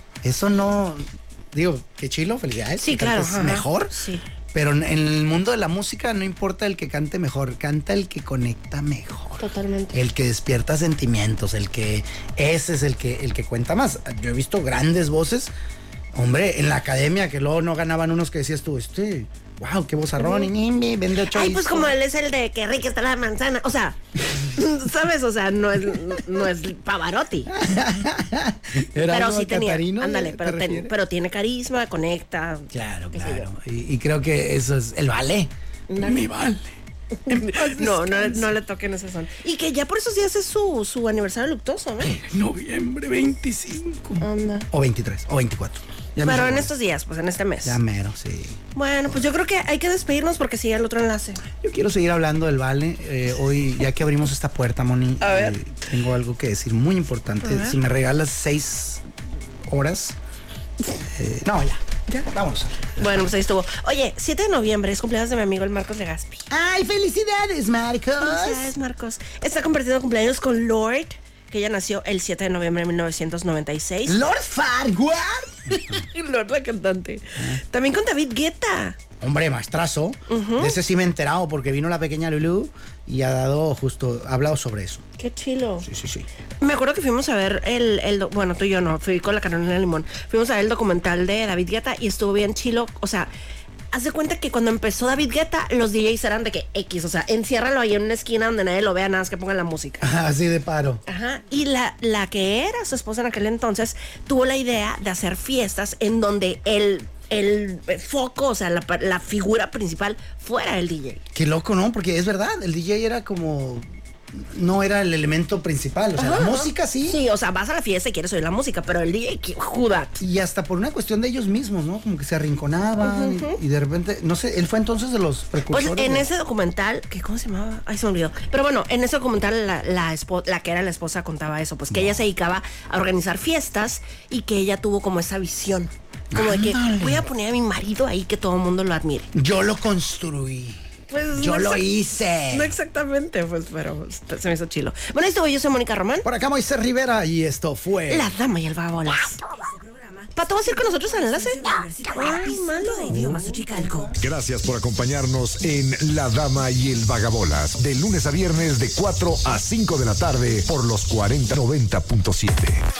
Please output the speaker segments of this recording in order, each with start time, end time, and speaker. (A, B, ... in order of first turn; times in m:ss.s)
0:00.2-0:03.9 A
0:02.8-0:04.2 B
0:04.5-0:15.5 A
0:09.4-0:10.0 B
0:16.1-0:21.9 A
0:20.2-0:20.5 B
0:21.2-0:27.5 B
0:27.5-0:30.9 A
0:29.0-0:33.5 B
0:32.7-0:36.7 A
0:35.9-0:36.3 B
0:37.2-0:42.2 B
0:37.3-0:38.5 A
0:42.0-0:46.7 A
0:44.2-0:44.7 B
0:46.2-0:47.8 B
0:47.6-0:48.6 A
0:48.7-0:51.4 B
0:51.6-0:59.0 A
0:55.2-0:55.6 B
0:57.4-0:57.8 B
0:59.6-1:00.2 A
1:01.0-1:03.2 A
1:03.0-1:06.5 B
1:06.5-1:08.7 A
1:08.2-1:14.2 B
1:14.0-1:16.0 A
1:15.7-1:19.0 B
1:19.2-1:25.0 A
1:20.3-1:20.8 B
1:25.2-1:25.9 B
1:25.8-1:26.2 A
1:26.6-1:33.3 B
1:33.9-1:40.1 B
1:40.0-1:41.0 A
1:41.0-1:51.2 B
1:51.3-1:57.2 A
1:56.2-2:00.2 B
2:00.2-2:06.3 A
2:03.0-2:03.6 B
2:05.7-2:19.3 B
2:11.9-2:12.2 A
2:16.3-2:17.3 A
2:19.3-2:20.8 A
2:21.1-2:21.8 B
2:21.3-2:22.7 A
2:22.5-2:26.2 B
2:26.2-2:28.3 A
2:28.1-2:34.2 B
2:32.3-2:34.2 A
2:34.2-2:42.8 C